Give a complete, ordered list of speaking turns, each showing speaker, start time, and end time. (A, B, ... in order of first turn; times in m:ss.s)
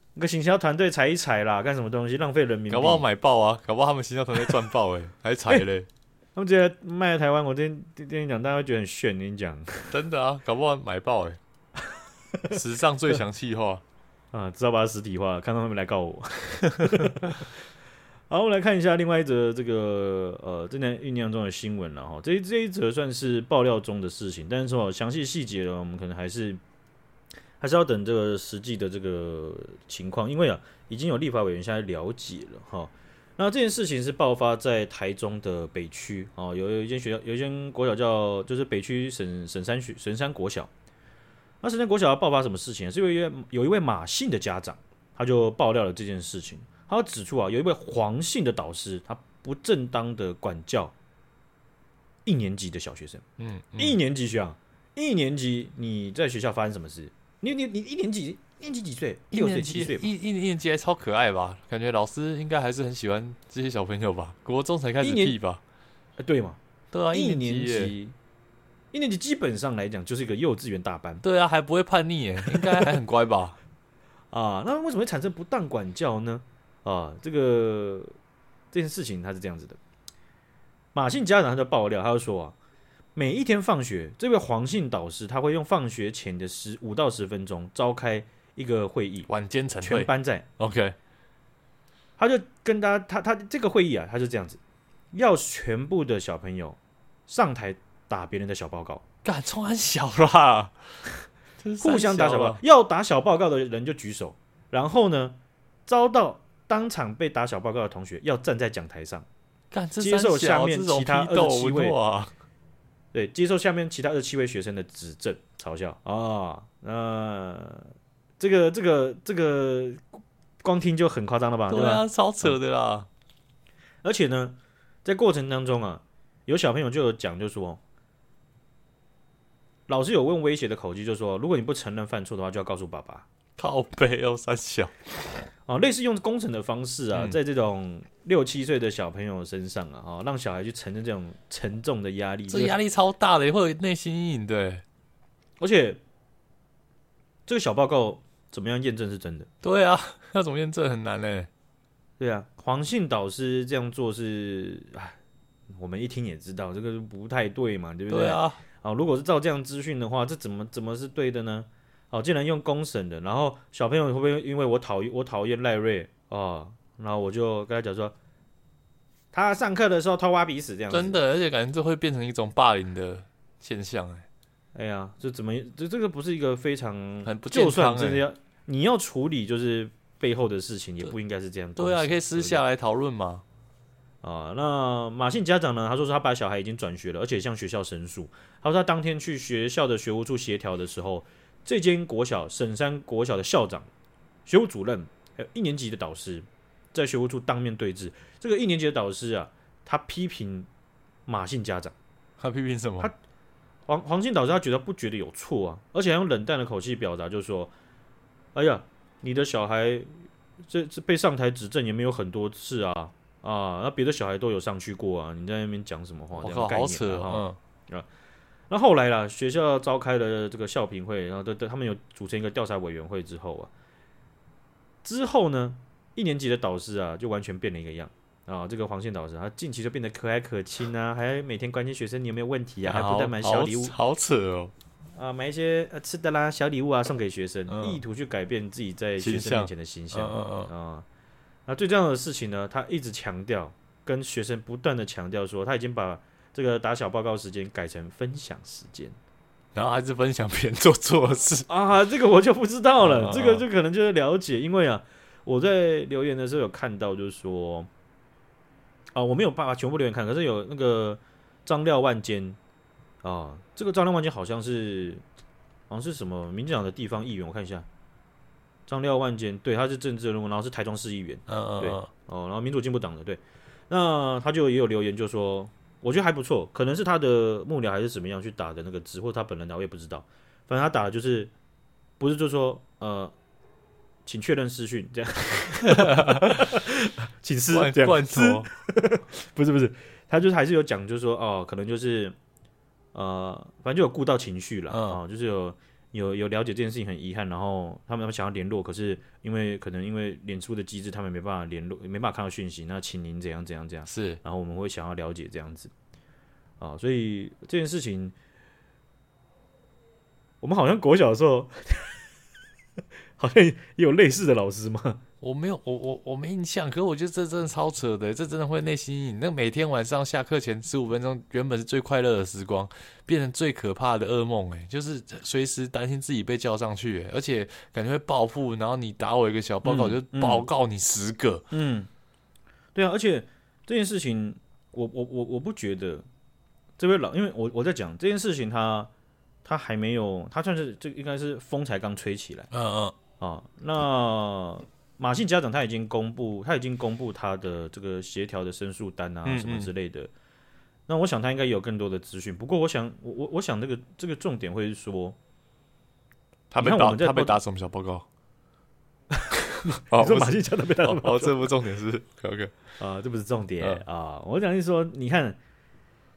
0:00.2-0:03.0 A
0:02.7-0:05.9 B
0:06.4-0:09.9 A
0:09.9-0:11.4 B
0:12.5-0:13.8 B
0:14.3-0:17.5 A
0:18.3-0:26.6 A
0:27.6-0:40.7 A
0:41.6-0:50.9 A
0:52.2-0:53.2 A
0:53.4-0:54.0 B
0:53.8-1:00.1 A
0:59.3-1:05.6 B
1:05.0-1:05.4 A
1:06.2-1:06.6 A
1:06.9-1:07.9 B
1:07.1-1:08.2 A
1:08.9-1:11.2 A
1:11.2-1:13.6 B
1:14.3-1:18.2 A
1:18.7-1:19.8 A
1:20.9-1:22.6 A
1:23.2-1:29.3 A
1:29.3-1:31.0 B
1:29.8-1:30.5 A
1:32.2-1:34.6 A
1:35.1-1:39.0 A
1:39.2-1:40.8 B
1:41.6-1:42.6 B
1:41.8-1:49.3 A
1:49.7-1:52.3 B
1:50.0-1:52.0 A
1:53.1-2:00.0 A
2:00.6-2:02.6 A
2:01.7-2:03.1 B
2:04.0-2:07.8 A
2:09.9-2:13.3 A
2:13.6-2:15.1 B
2:15.7-2:22.8 A
2:22.5-2:24.8 B
2:25.6-2:26.0 A
2:27.5-2:29.5 A
2:29.6-2:31.5 B
2:32.2-2:35.2 A
2:35.7-2:48.1 A
2:38.1-2:38.6 B
2:49.3-2:51.2 A
2:50.9-2:54.3 B
2:54.8-3:02.6 A
2:57.2-2:58.2 B
3:01.8-3:03.4 B
3:04.2-3:13.9 A
3:14.5-3:20.7 A
3:21.3-3:22.0 A
3:22.4-3:23.1 B
3:23.9-3:27.7 A
3:28.6-3:38.1 A
3:36.4-3:37.6 B
3:38.7-3:43.7 A
3:45.0-3:54.0 A
3:52.9-3:54.7 B
3:55.2-4:01.1 A
3:57.7-3:58.0 B
3:59.2-4:00.7 B
4:01.7-4:09.2 A
4:09.8-4:11.7 B
4:11.7-4:17.9 A
4:13.0-4:13.6 B
4:19.1-4:22.6 A
4:23.2-4:25.2 A
4:25.9-4:27.9 A
4:28.9-4:41.5 A
4:31.5-4:32.1 B
4:42.2-4:43.3 A
4:44.2-4:52.4 A
4:45.9-4:46.7 B
4:47.7-4:48.7 B
4:53.1-5:05.9 A
4:54.9-4:55.2 B
5:04.1-5:04.4 B
5:06.8-5:08.4 A
5:10.6-5:12.2 A
5:13.4-5:15.2 A
5:15.4-5:31.6 B
5:29.8-5:30.7 A
5:31.7-5:32.1 A
5:33.0-5:36.3 A
5:37.0-5:39.1 A
5:39.6-5:42.7 A
5:42.7-5:43.2 B
5:43.4-5:50.3 A
5:49.5-5:49.9 B
5:51.1-5:55.4 A
5:56.7-5:58.3 B
5:56.8-5:57.6 A
5:59.3-6:01.7 A
6:00.1-6:02.7 B
6:03.0-6:05.6 A